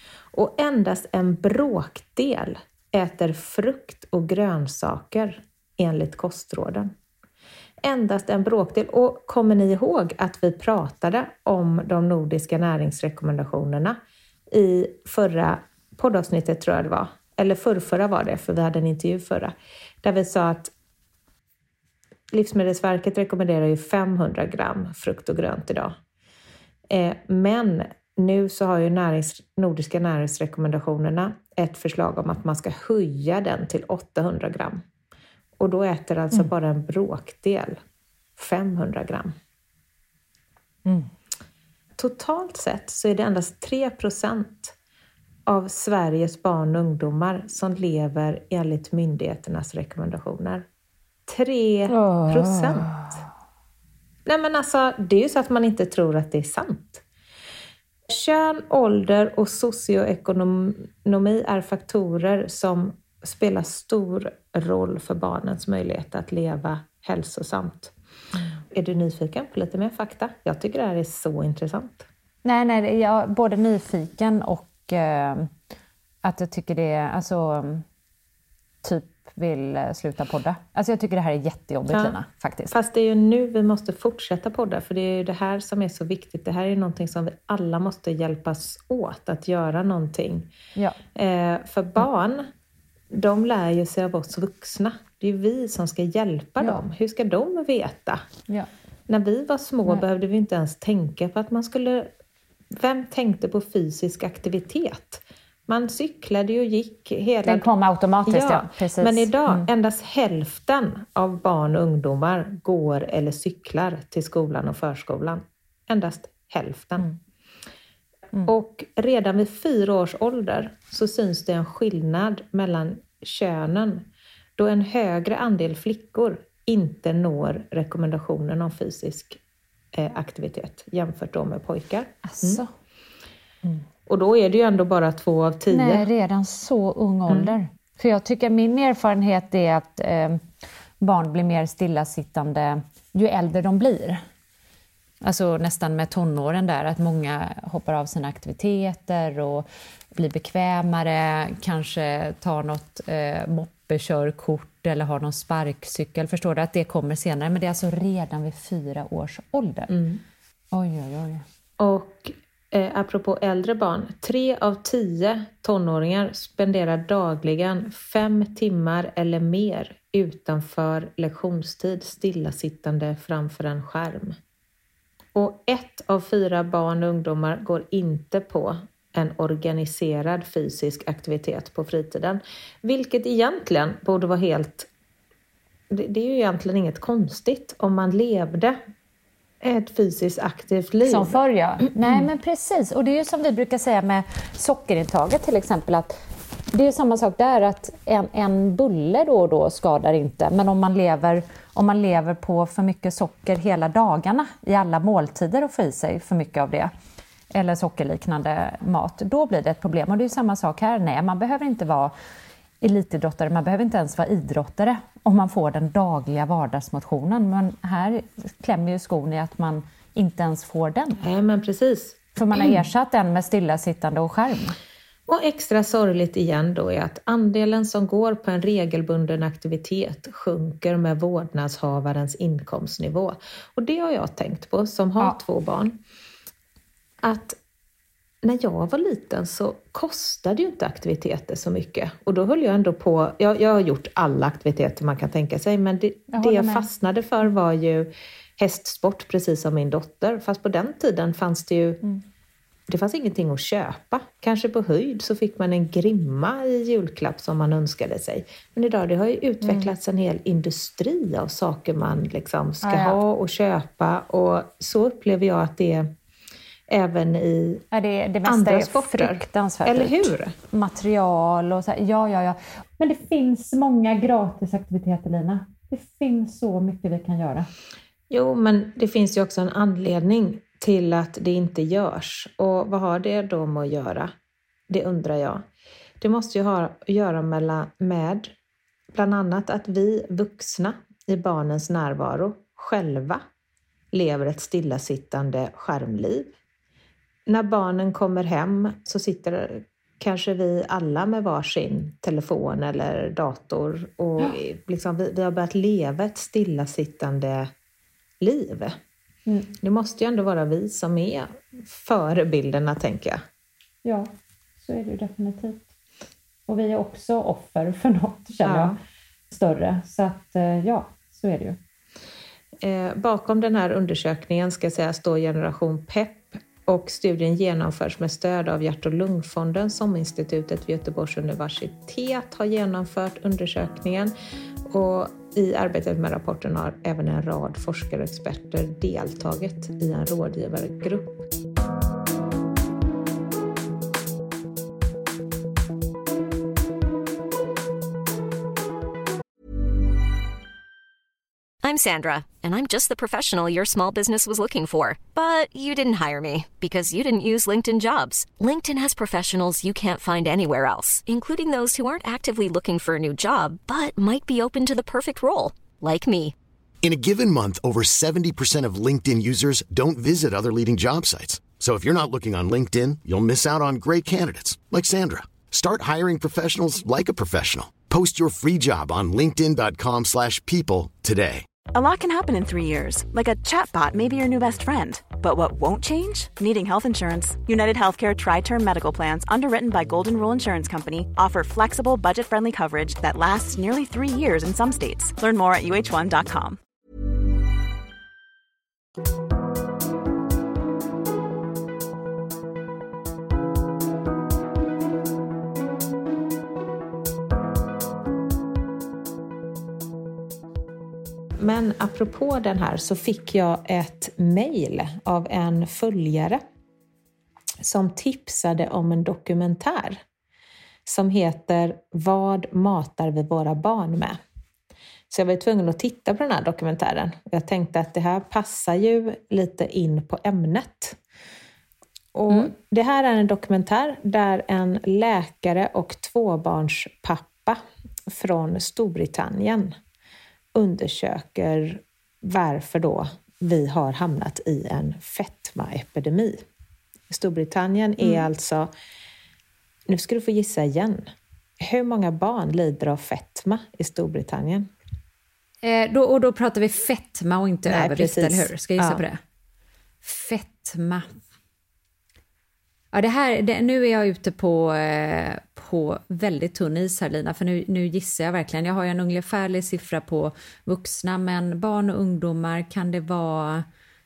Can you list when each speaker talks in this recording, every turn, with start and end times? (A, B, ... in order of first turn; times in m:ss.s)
0:00.3-0:06.9 A
0:07.8-0:14.0 A
0:14.5-0:20.7 A
0:22.3-0:25.9 A
0:26.9-0:34.8 A
0:35.6-0:37.8 A
0:38.4-0:39.3 A
0:42.0-0:44.7 A
0:45.5-0:50.6 A
0:51.3-0:52.9 A
0:51.9-0:53.2 B
0:54.2-0:57.0 A
0:58.1-1:07.9 A
1:08.7-1:12.0 A
1:12.4-1:15.5 B
1:16.2-1:17.8 B
1:18.8-1:22.7 B
1:22.7-1:30.5 A
1:31.2-1:32.5 A
1:33.1-1:38.2 A
1:36.6-1:36.8 B
1:39.1-1:42.1 A
1:42.8-1:47.7 A
1:47.4-1:49.7 B
1:48.2-1:57.1 A
1:58.5-2:04.0 A
2:04.6-2:09.4 A
2:09.9-2:12.6 A
2:12.2-2:12.7 B
2:14.1-2:16.1 A
2:15.7-2:20.4 B
2:17.3-2:17.5 A
2:21.0-2:24.2 B
2:25.2-2:39.9 B
2:39.9-2:40.2 A
2:40.7-2:41.4 B
2:41.8-2:54.4 A
2:55.3-3:04.9 A
3:05.9-3:08.8 A
3:09.6-3:11.4 A
3:11.0-3:16.1 B
3:16.7-3:26.9 B
3:27.5-3:32.1 B
3:32.8-3:41.2 B
3:41.2-3:42.8 A
3:42.4-3:44.8 B
3:45.3-3:56.0 A
3:57.2-3:57.6 A
3:58.4-4:12.0 A
4:06.3-4:06.9 B
4:12.9-4:26.1 A
4:19.6-4:19.9 B
4:22.8-4:23.2 B
4:26.9-4:27.8 A
4:27.9-4:37.7 B
4:28.4-4:30.5 A
4:38.3-4:44.3 A
4:44.9-4:45.6 A
4:46.2-4:48.5 A
4:49.1-4:53.4 A
4:54.1-4:56.5 A
4:57.5-5:07.7 A
5:08.4-5:09.0 A
5:09.4-5:09.7 B
5:09.8-5:13.4 A
5:14.0-5:14.3 B
5:14.8-5:15.8 B
5:16.7-5:19.0 B
5:18.6-5:18.9 A
5:19.5-5:21.8 B
5:22.8-5:34.3 A
5:34.9-5:41.4 A
5:51.8-6:06.5 C
6:07.0-6:21.6 D
6:21.9-6:36.8 E
6:51.6-6:56.6 A
6:57.8-7:00.2 A
7:01.0-7:04.4 A
7:05.3-7:11.2 A
7:12.3-7:17.8 A
7:18.3-7:19.9 A
7:20.7-7:26.6 A
7:27.3-7:28.9 A
7:28.2-7:28.4 B
7:30.1-7:31.3 A
7:31.8-7:34.9 A
7:35.8-7:39.4 B
7:37.9-7:39.2 A
7:40.2-7:41.2 B
7:43.1-7:53.8 B